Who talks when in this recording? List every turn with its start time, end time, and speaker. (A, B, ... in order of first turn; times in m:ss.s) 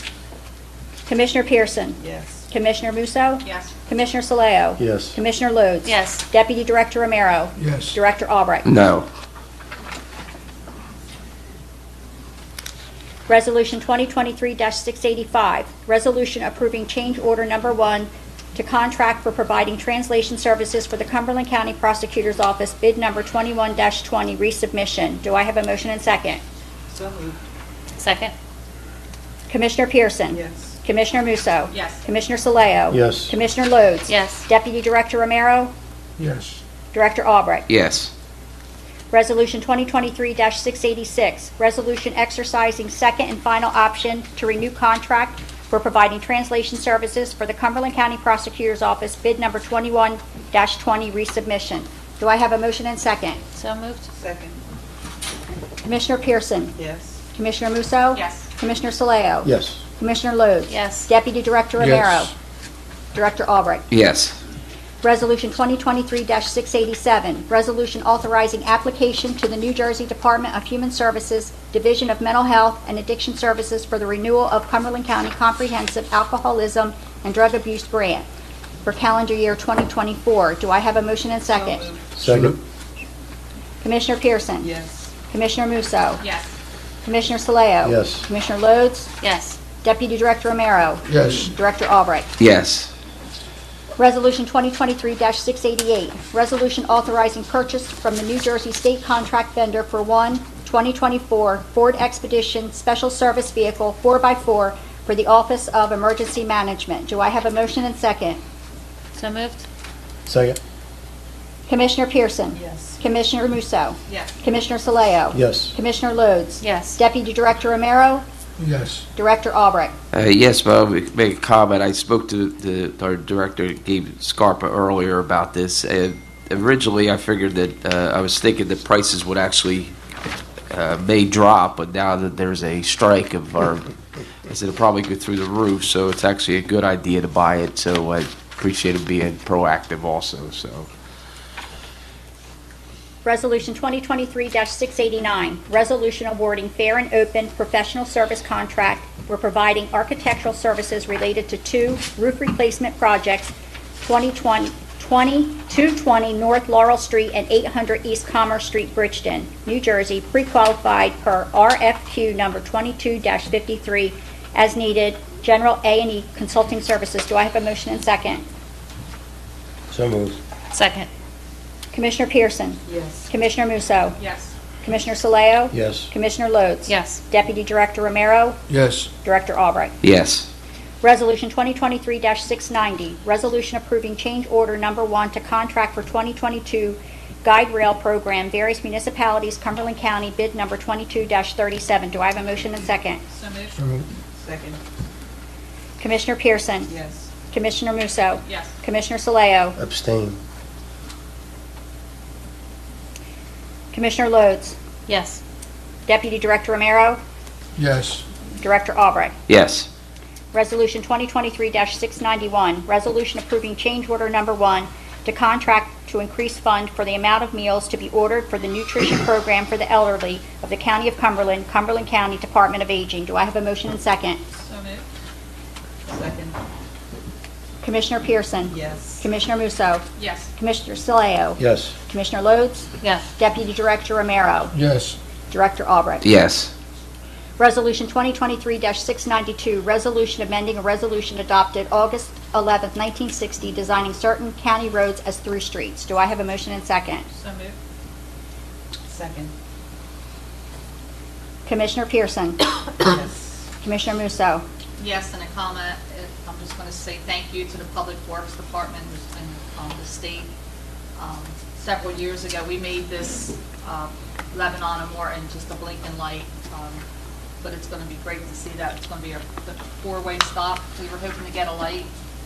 0:01.1-0:08.7 A
0:02.0-0:02.5 B
0:03.4-0:03.7 C
0:04.8-0:05.2 D
0:05.8-0:06.2 E
0:07.6-0:08.0 F
0:08.7-0:09.1 G
0:13.3-0:26.4 A
0:26.9-0:27.4 B
0:28.0-0:28.3 E
0:29.5-0:35.7 A
0:30.3-0:30.7 B
0:31.7-0:32.0 C
0:32.9-0:33.3 D
0:34.1-0:34.5 E
0:36.2-0:36.6 F
0:36.9-0:37.7 A
0:37.7-0:38.1 G
0:39.1-0:53.4 A
0:53.6-0:54.1 E
0:54.2-0:54.6 B
0:55.8-0:56.7 A
0:56.8-0:57.2 B
0:57.3-1:02.3 A
0:58.1-0:58.5 C
0:59.4-0:59.8 D
1:00.7-1:01.1 E
1:01.8-1:02.3 F
1:03.1-1:03.8 A
1:03.9-1:04.4 G
1:05.0-1:18.3 A
1:18.8-1:21.9 A
1:21.5-1:22.2 B
1:22.2-1:22.6 D
1:22.3-1:22.5 F
1:23.8-1:24.7 A
1:24.6-1:25.1 B
1:25.3-1:26.2 A
1:26.2-1:26.5 C
1:27.1-1:29.1 A
1:27.8-1:28.3 D
1:29.2-1:29.6 E
1:29.8-1:32.3 A
1:31.1-1:31.5 F
1:32.4-1:32.9 G
1:34.0-1:48.4 A
1:49.2-1:49.7 E
1:50.3-1:50.6 D
1:51.7-1:58.2 A
1:52.5-1:53.0 B
1:55.3-1:55.7 D
1:56.6-1:57.0 E
1:58.6-1:59.0 F
1:59.2-1:59.9 A
2:00.1-2:09.9 G
2:10.7-2:13.9 G
2:14.5-2:20.9 G
2:23.2-2:48.4 A
2:49.9-2:50.4 D
2:50.7-2:51.1 E
2:51.9-2:54.2 A
2:52.9-2:53.3 B
2:54.2-2:54.5 C
2:54.8-2:58.6 A
2:55.7-2:56.1 D
2:56.9-2:57.2 E
2:58.7-2:59.1 F
2:59.2-3:00.0 A
3:00.0-3:00.5 G
3:01.0-3:13.2 A
3:13.3-3:13.8 C
3:13.8-3:14.0 F
3:14.4-3:14.8 B
3:16.0-3:16.9 A
3:16.9-3:17.3 B
3:17.5-3:19.8 A
3:18.4-3:18.7 C
3:19.8-3:20.4 D
3:23.9-3:24.8 A
3:25.1-3:25.4 E
3:26.1-3:27.2 A
3:27.8-3:28.2 F
3:28.6-3:29.4 A
3:29.5-3:29.9 G
3:30.5-3:44.4 A
3:44.6-3:45.0 C
3:46.1-3:46.6 B
3:47.8-3:50.0 A
3:48.7-3:49.2 B
3:50.2-3:50.5 C
3:50.6-3:54.7 A
3:51.6-3:51.9 D
3:53.0-3:53.3 E
3:54.7-3:55.2 F
3:55.5-3:56.2 A
3:56.2-3:56.7 G
3:57.6-4:07.2 A
4:07.3-4:07.8 C
4:09.1-4:09.5 B
4:11.7-4:12.7 A
4:13.0-4:13.5 B
4:13.8-4:14.6 A
4:15.0-4:20.5 C
4:21.2-4:27.0 C
4:27.6-4:32.1 C